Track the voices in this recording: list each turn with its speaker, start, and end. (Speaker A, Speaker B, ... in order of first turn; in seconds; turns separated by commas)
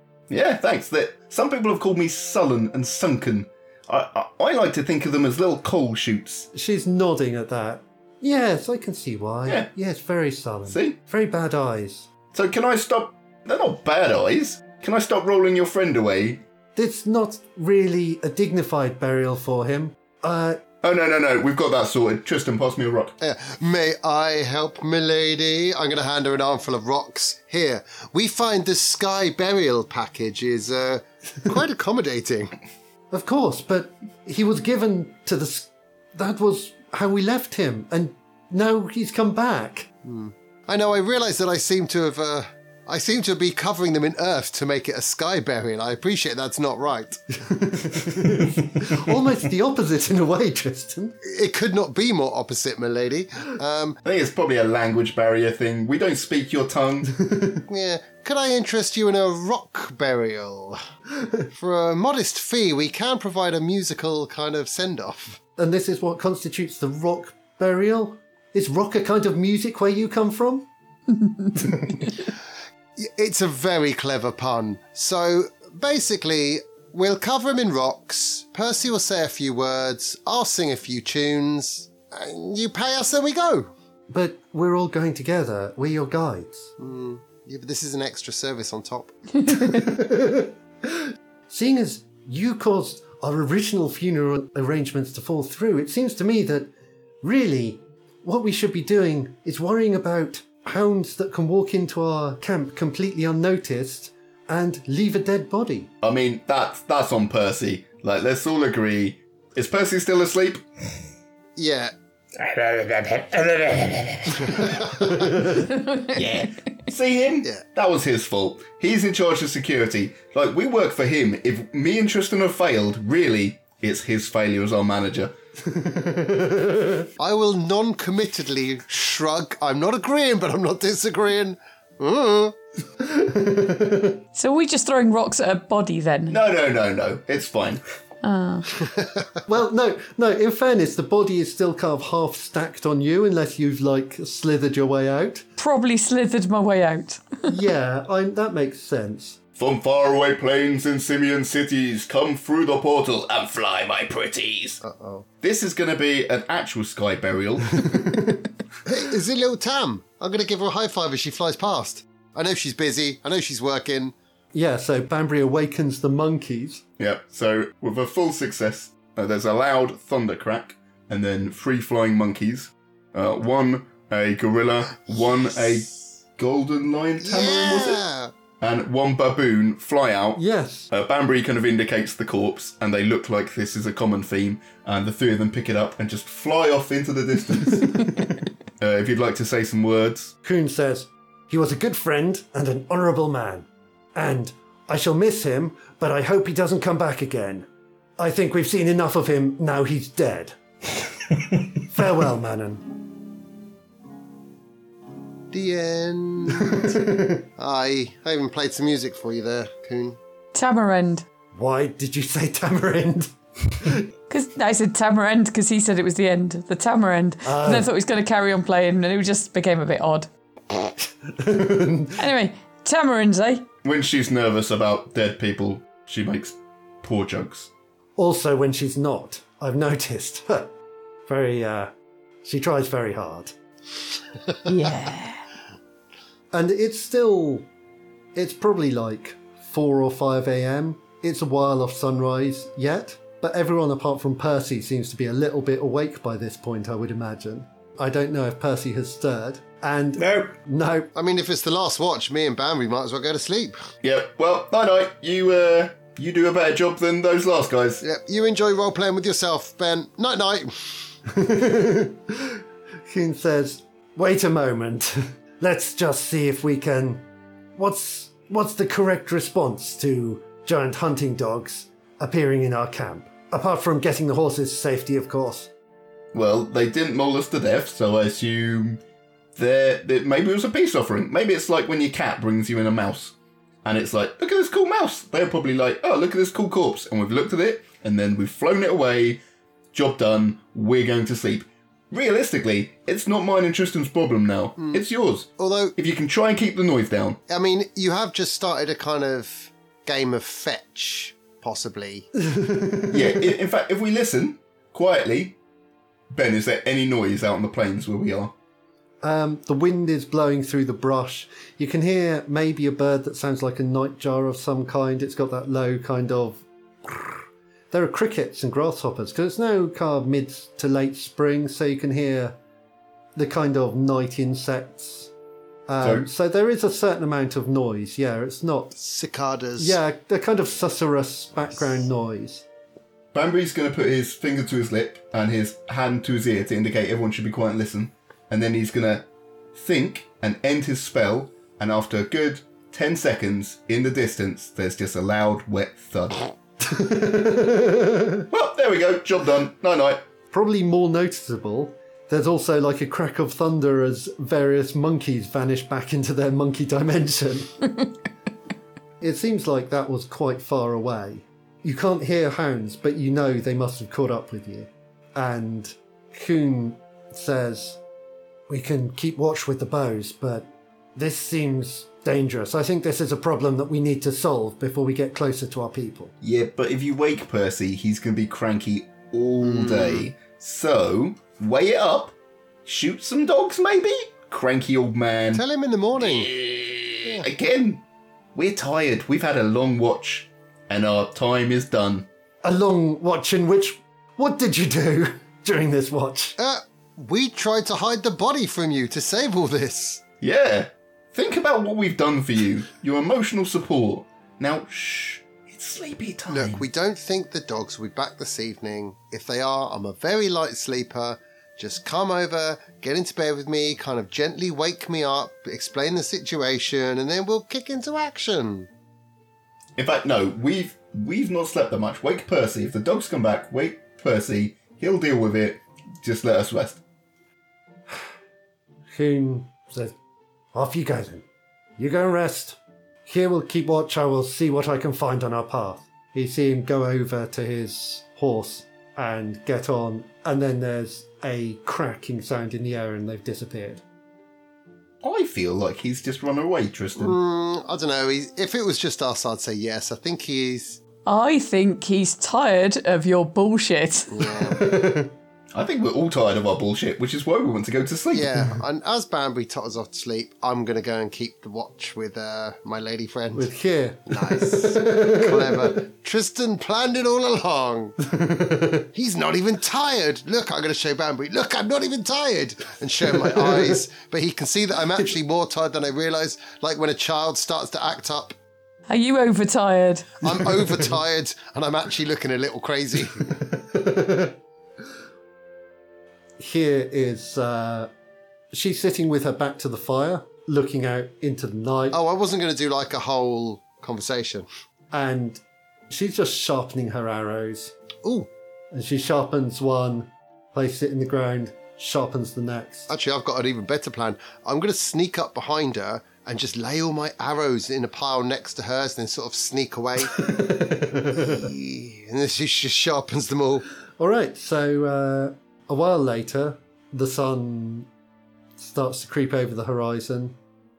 Speaker A: 0.3-6.5, Speaker B: 6.5-12.1, Speaker A: 10.7-11.0, Speaker A: 12.3-16.4, Speaker B: 16.8-20.6, Speaker A: 20.8-23.1, Speaker C: 23.2-32.6, Speaker B: 33.1-39.9, Speaker C: 40.0-47.2, Speaker B: 47.4-51.2, Speaker C: 51.2-54.0, Speaker A: 54.0-57.1, Speaker B: 57.1-57.6, Speaker C: 57.7-60.8, Speaker C: 61.6-65.4, Speaker B: 65.6-70.7, Speaker C: 73.0-83.7, Speaker B: 84.1-86.7, Speaker C: 86.8-89.2, Speaker B: 89.5-96.7, Speaker B: 97.2-105.9, Speaker A: 106.0-110.6, Speaker C: 111.6-111.9, Speaker D: 112.4-114.8, Speaker C: 114.5-115.0, Speaker B: 115.1-115.7, Speaker E: 115.7-116.1, Speaker A: 116.1-125.3, Speaker B: 125.8-127.0, Speaker C: 127.2-132.6, Speaker B: 133.1-134.2, Speaker E: 134.3-136.4, Speaker A: 136.3-137.8, Speaker E: 138.2-138.7, Speaker B: 139.5-145.5, Speaker E: 145.6-147.4, Speaker B: 147.5-149.4, Speaker A: 149.6-154.8, Speaker C: 154.8-155.3, Speaker A: 155.4-158.1, Speaker B: 157.9-158.2, Speaker C: 158.8-164.1, Speaker B: 164.5-166.8, Speaker A: 167.0-178.0, Speaker C: 177.2-178.3, Speaker A: 178.6-188.2, Speaker B: 180.4-180.9, Speaker A: 188.8-190.3, Speaker B: 190.4-197.7, Speaker B: 198.2-200.6, Speaker B: 201.8-202.9, Speaker C: 205.5-210.2, Speaker B: 206.7-207.4, Speaker E: 210.5-211.3, Speaker B: 211.6-214.0, Speaker E: 214.3-220.3, Speaker B: 217.4-217.9, Speaker B: 221.3-222.2, Speaker E: 222.2-223.7, Speaker A: 223.8-227.7, Speaker B: 228.2-230.7, Speaker B: 231.3-231.9, Speaker B: 232.4-233.5, Speaker E: 234.7-235.4, Speaker B: 236.5-237.7, Speaker B: 238.3-251.1, Speaker D: 250.2-250.6, Speaker C: 251.2-253.8, Speaker A: 254.0-258.0, Speaker C: 258.0-260.7, Speaker B: 261.3-267.2, Speaker B: 267.8-275.7, Speaker A: 276.3-279.0, Speaker A: 279.6-289.4, Speaker A: 289.9-297.4, Speaker C: 294.8-295.0, Speaker C: 295.6-295.9, Speaker C: 297.5-302.3, Speaker B: 302.4-303.4, Speaker A: 303.1-305.6, Speaker A: 306.3-308.5, Speaker B: 309.2-322.6, Speaker B: 323.4-325.3, Speaker B: 325.9-328.9, Speaker A: 326.0-326.3, Speaker C: 328.9-330.0, Speaker B: 329.8-332.6, Speaker A: 333.3-346.4, Speaker B: 346.8-348.4, Speaker A: 348.5-350.2, Speaker B: 350.5-357.8, Speaker B: 359.2-368.0, Speaker B: 368.7-376.3, Speaker A: 376.4-382.3, Speaker C: 379.6-380.3, Speaker A: 382.9-385.6, Speaker C: 385.5-386.5, Speaker A: 386.2-388.0, Speaker A: 388.6-392.3, Speaker B: 392.6-396.6, Speaker C: 396.6-400.2, Speaker A: 400.4-406.9, Speaker C: 406.5-418.9, Speaker A: 420.0-427.0, Speaker B: 429.1-430.1, Speaker B: 430.7-431.4, Speaker B: 432.0-444.0, Speaker A: 445.2-447.4, Speaker C: 447.2-451.0, Speaker E: 451.3-454.5, Speaker C: 454.3-454.8, Speaker B: 454.7-455.3, Speaker A: 455.7-458.5, Speaker C: 458.3-463.7, Speaker B: 463.6-466.0, Speaker C: 464.3-468.2, Speaker B: 468.2-469.1, Speaker C: 469.1-478.6, Speaker B: 473.4-474.0, Speaker E: 479.1-480.5, Speaker C: 480.4-483.5, Speaker B: 480.6-481.1, Speaker B: 483.6-484.5, Speaker B: 486.6-488.1, Speaker B: 488.7-492.2, Speaker C: 492.1-494.7, Speaker B: 495.1-497.9, Speaker C: 498.2-498.5, Speaker B: 498.9-503.1, Speaker C: 503.1-510.5, Speaker B: 510.3-511.7, Speaker C: 511.4-513.8, Speaker B: 514.2-518.1, Speaker B: 518.8-520.6